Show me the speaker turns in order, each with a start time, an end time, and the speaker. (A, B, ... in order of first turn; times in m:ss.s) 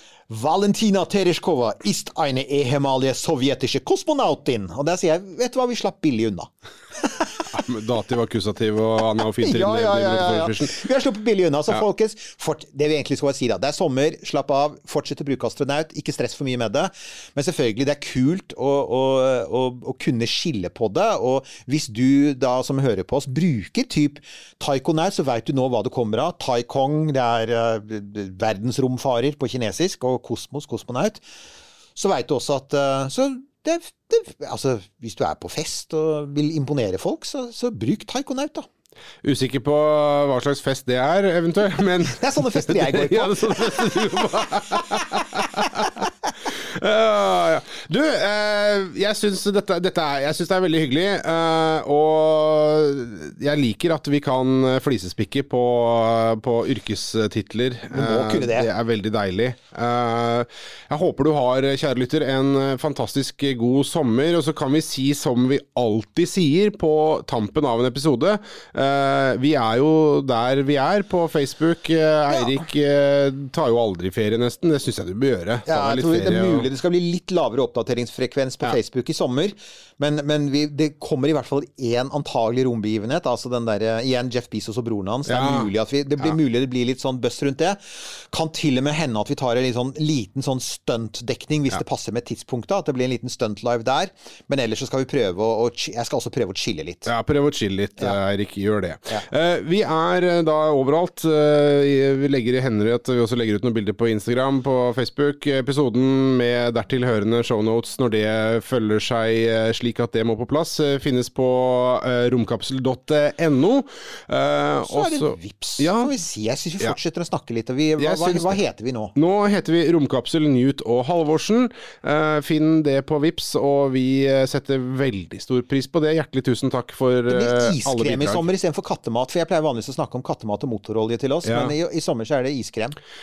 0:00.3-0:07.3 A
0:07.4-0:10.8 B
0:09.4-0:31.2 A
0:32.0-0:38.6 A
0:39.2-1:16.7 B
0:42.1-0:43.8 A
0:57.9-0:58.7 A
1:15.6-1:37.1 A
1:25.3-1:25.7 B
1:37.0-1:56.1 B
1:54.8-1:59.1 A
1:58.0-1:58.6 B
1:59.1-2:08.5 B
2:07.3-2:13.0 A
2:11.4-2:11.7 B